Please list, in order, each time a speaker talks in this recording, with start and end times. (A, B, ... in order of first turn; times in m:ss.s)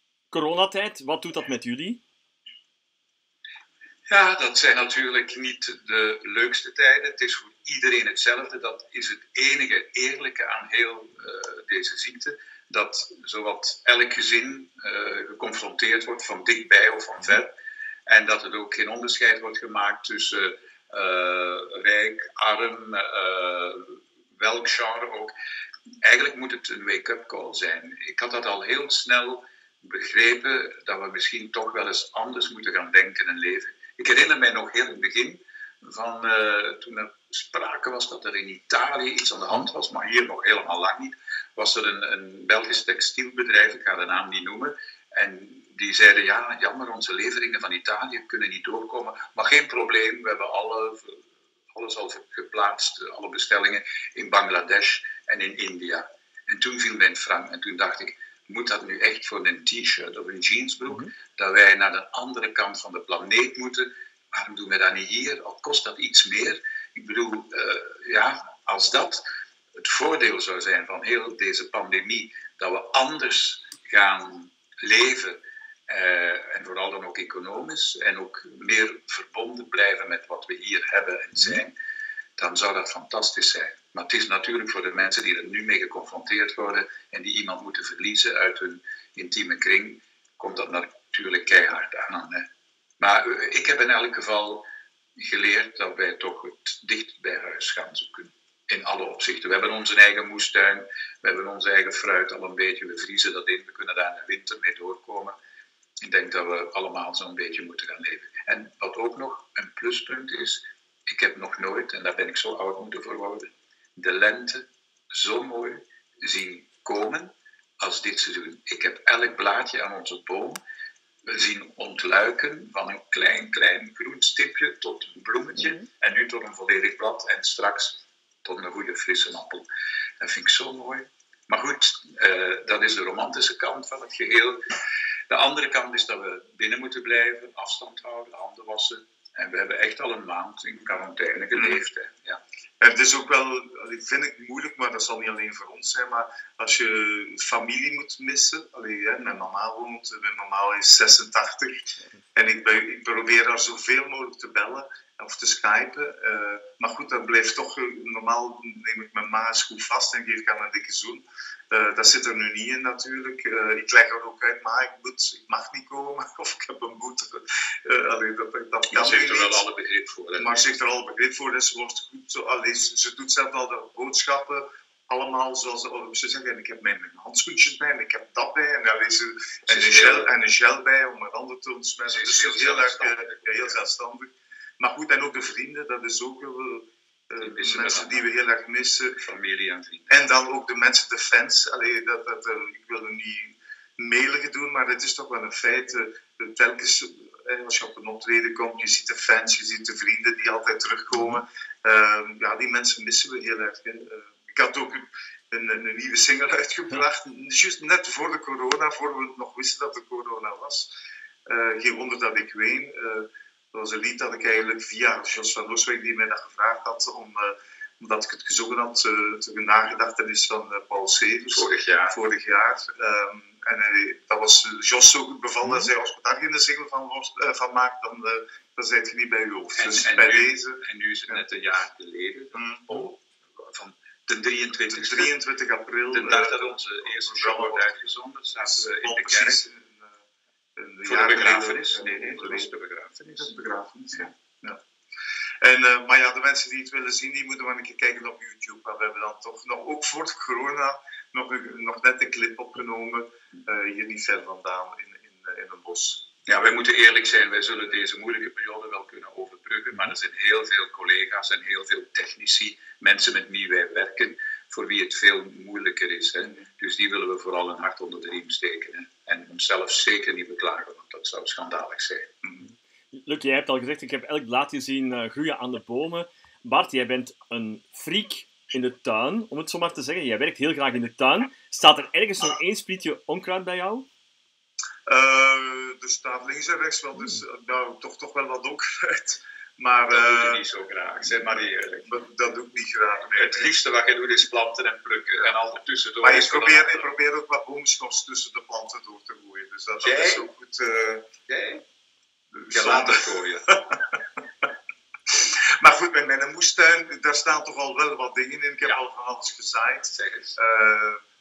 0:00.3-0:02.0 A
0:04.1-0:17.5 B
0:18.1-0:25.3 B
0:26.0-1:09.2 B
1:09.8-1:21.8 B
1:22.4-1:32.5 B
1:33.0-1:45.4 B
1:46.0-2:00.6 B
2:01.3-2:09.7 B
2:10.2-2:14.6 B
2:15.3-2:22.4 B
2:21.6-2:21.8 C
2:22.8-2:49.6 C
2:48.9-2:50.8 B
2:50.4-3:09.2 C
2:59.7-3:00.3 B
3:02.0-3:03.8 B
3:07.4-3:08.3 B
3:09.2-3:10.3 B
3:10.1-3:30.9 C
3:31.5-3:51.4 C
3:41.5-3:42.2 B
3:49.8-3:55.3 B
3:52.5-3:53.1 C
3:54.9-4:00.1 C
3:56.1-3:59.7 B
4:00.8-4:02.7 C
4:01.1-4:03.6 B
4:03.3-4:04.8 C
4:05.6-4:16.3 C
4:16.5-4:32.4 B
4:33.1-4:44.1 A
4:45.1-4:50.6 C
4:50.1-4:52.1 B
4:52.1-4:53.7 C
4:53.3-4:57.1 B
4:56.2-5:01.3 C
5:00.0-5:00.5 B
5:01.5-5:01.8 B
5:02.5-5:03.3 C
5:02.7-5:03.7 B
5:05.8-5:11.2 C
5:10.1-5:10.6 B